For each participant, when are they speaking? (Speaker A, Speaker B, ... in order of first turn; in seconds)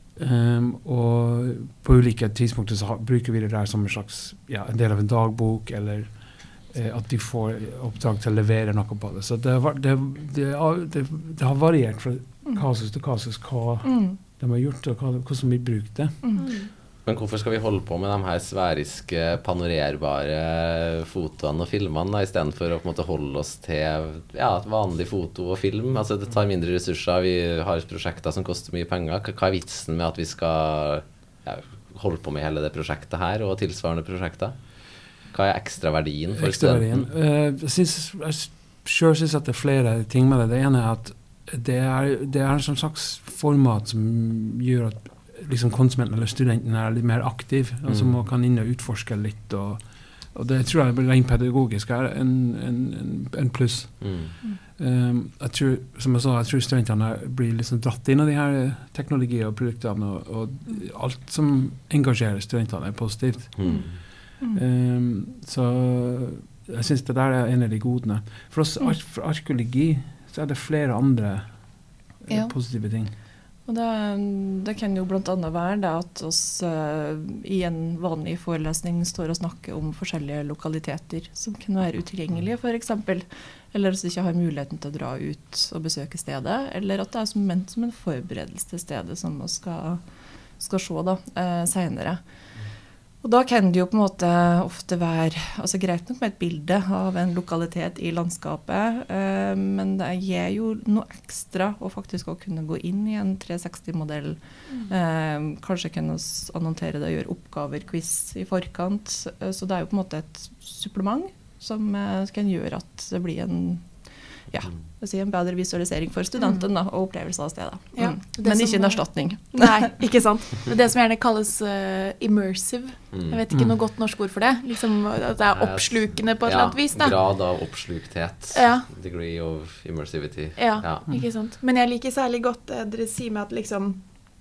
Speaker A: 0.1-16.4, 36.3-73.1, 123.5-123.8
Speaker B: 13.8-14.2, 72.3-72.6, 73.6-119.9
Speaker C: 16.4-16.7, 116.4-116.7, 117.9-127.2, 128.5-128.9, 130.6-134.1
Speaker D: 17.1-37.1, 47.8-48.2, 54.0-54.3, 63.6-64.0, 123.1-123.4, 125.5-131.2